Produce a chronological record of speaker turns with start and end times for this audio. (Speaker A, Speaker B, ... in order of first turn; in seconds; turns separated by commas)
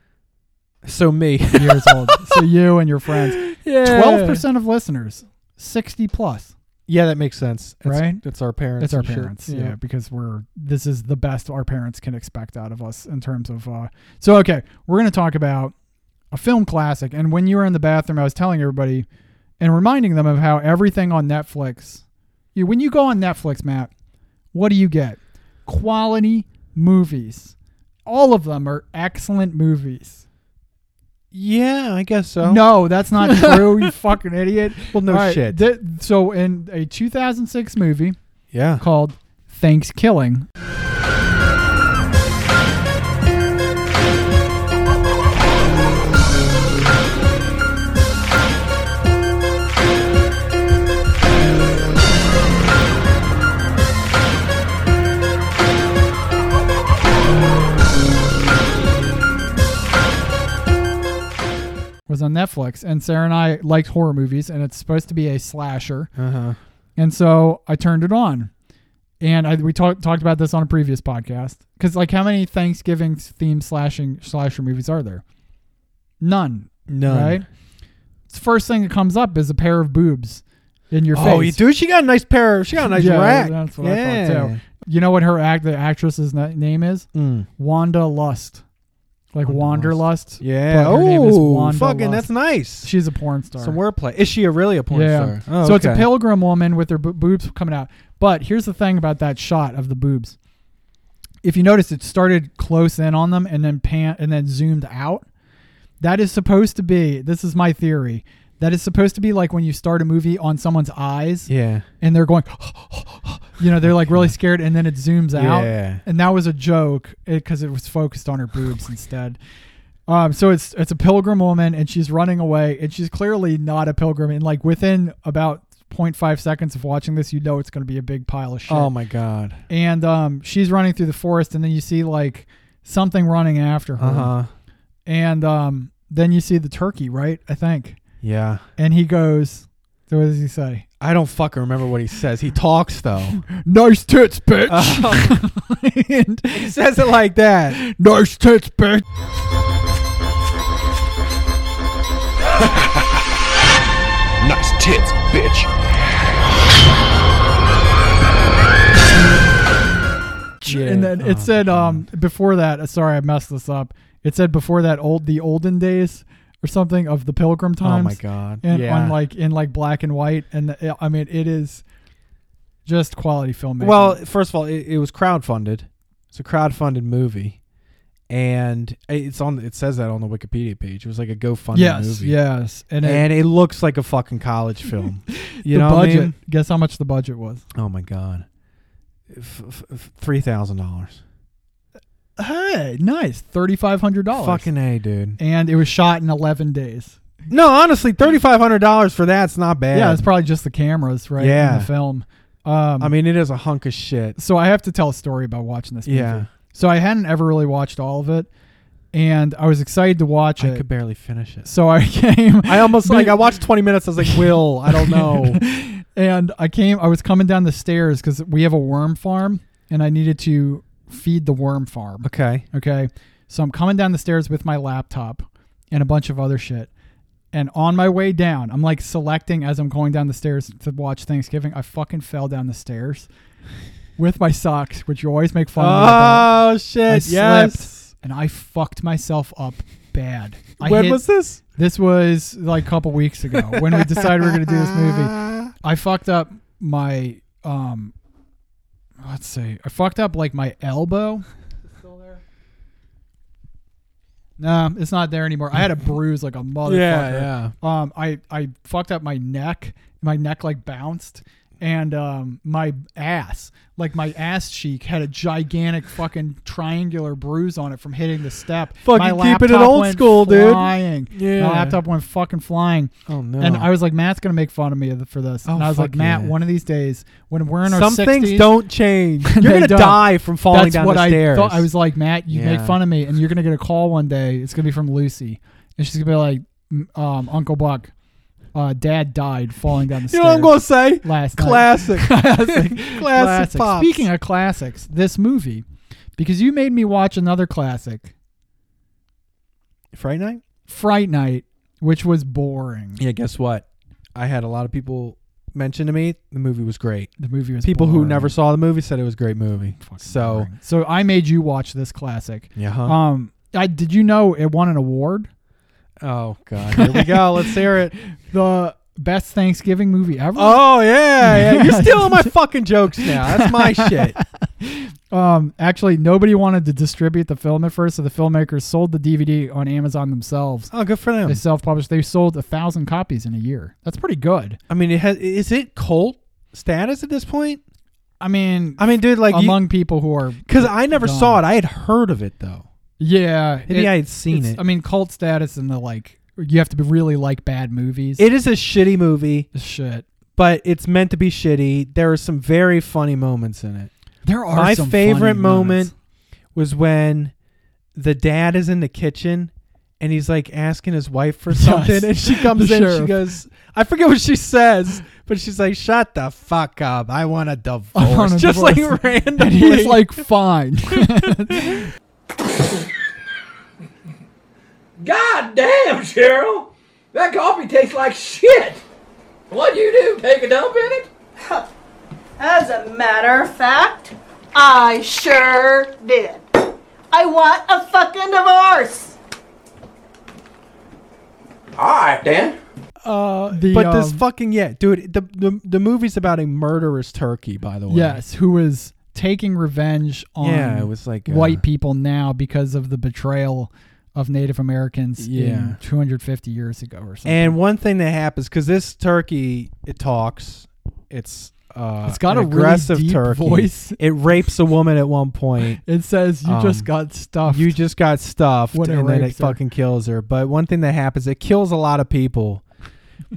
Speaker A: 0.8-2.5, Speaker B: 1.6-6.5, Speaker A: 3.1-4.5, Speaker A: 6.9-9.8, Speaker B: 7.8-8.2, Speaker B: 8.8-15.7, Speaker B: 16.3-19.1, Speaker B: 19.6-22.0, Speaker B: 22.5-23.9, Speaker B: 24.5-27.6, Speaker B: 28.1-30.2, Speaker A: 31.3-33.9, Speaker B: 32.4-38.2, Speaker A: 34.9-35.6, Speaker A: 38.5-38.8, Speaker B: 38.8-40.5, Speaker B: 62.1-66.1, Speaker A: 66.2-66.6, Speaker B: 67.0-68.5, Speaker B: 69.2-75.2, Speaker B: 76.2-77.5, Speaker A: 76.9-77.5, Speaker B: 78.3-81.6, Speaker A: 81.1-84.6, Speaker B: 82.9-88.6, Speaker A: 87.1-87.5, Speaker B: 89.3-92.3, Speaker A: 89.4-92.9, Speaker B: 92.8-93.8, Speaker A: 93.6-96.1, Speaker B: 94.9-100.4, Speaker B: 101.4-105.2, Speaker B: 106.0-119.4, Speaker A: 111.5-111.9, Speaker A: 113.8-114.3, Speaker A: 115.3-116.0, Speaker B: 120.1-128.9, Speaker A: 128.7-129.6, Speaker B: 129.7-134.3, Speaker A: 134.0-134.5, Speaker B: 135.1-138.0, Speaker A: 138.2-138.6, Speaker B: 138.8-140.9, Speaker A: 141.0-143.4, Speaker B: 143.5-146.8, Speaker A: 144.7-145.4, Speaker A: 146.5-147.8, Speaker B: 147.7-149.0, Speaker A: 154.4-155.7, Speaker B: 160.6-171.8, Speaker A: 160.6-162.1, Speaker A: 167.8-169.2, Speaker B: 172.9-174.2, Speaker A: 173.8-177.6, Speaker A: 178.3-182.4, Speaker B: 181.7-183.3, Speaker A: 183.0-186.4, Speaker B: 185.4-187.6, Speaker A: 187.7-188.5, Speaker A: 189.3-191.2, Speaker B: 192.4-194.7, Speaker A: 194.3-195.4, Speaker B: 195.4-197.2, Speaker A: 197.5-200.3, Speaker B: 199.9-203.1, Speaker A: 201.4-201.9, Speaker A: 203.0-204.4, Speaker B: 204.4-208.5, Speaker A: 206.1-206.5, Speaker B: 209.1-210.9, Speaker A: 210.6-211.7, Speaker B: 211.7-213.6, Speaker A: 212.7-215.6, Speaker B: 214.2-226.9, Speaker A: 222.2-222.7, Speaker B: 227.5-233.3, Speaker B: 234.2-236.6, Speaker A: 235.8-238.0, Speaker B: 237.1-248.1, Speaker A: 240.8-241.6, Speaker A: 243.5-245.7, Speaker B: 249.2-251.4, Speaker B: 252.0-252.4, Speaker B: 254.6-278.8, Speaker A: 256.9-257.7, Speaker A: 269.0-272.0, Speaker A: 273.3-273.9, Speaker A: 275.6-276.6, Speaker A: 277.9-281.9, Speaker B: 279.5-288.1, Speaker A: 282.5-283.0, Speaker B: 288.7-295.8, Speaker A: 290.3-294.3, Speaker B: 296.4-298.3, Speaker A: 300.1-300.6, Speaker B: 300.9-303.2, Speaker A: 303.2-310.7, Speaker B: 307.4-308.6, Speaker B: 310.0-315.5, Speaker A: 312.8-313.2, Speaker A: 316.2-318.2, Speaker B: 316.9-322.5, Speaker A: 320.6-324.4, Speaker B: 323.2-330.9, Speaker A: 330.9-331.6, Speaker B: 331.4-334.8, Speaker A: 334.9-337.8, Speaker B: 338.4-341.6, Speaker A: 339.0-339.8, Speaker A: 340.7-342.9, Speaker B: 343.2-348.5, Speaker A: 343.9-344.8, Speaker A: 348.4-349.7, Speaker B: 349.7-350.2, Speaker A: 350.6-354.1, Speaker B: 354.4-356.1, Speaker A: 354.7-356.1, Speaker A: 356.8-357.5, Speaker A: 358.1-370.4, Speaker B: 361.7-363.5, Speaker B: 368.1-372.1, Speaker A: 371.1-372.0, Speaker C: 375.2-379.0, Speaker C: 379.7-381.3, Speaker D: 382.6-389.4, Speaker C: 392.0-392.7, Speaker B: 393.2-394.4, Speaker A: 393.7-398.4, Speaker B: 398.1-407.8, Speaker A: 400.6-401.8, Speaker A: 405.4-406.0, Speaker A: 407.4-416.0, Speaker B: 412.3-414.2, Speaker B: 416.0-418.0, Speaker A: 416.6-417.1, Speaker A: 417.7-422.8, Speaker B: 418.9-419.8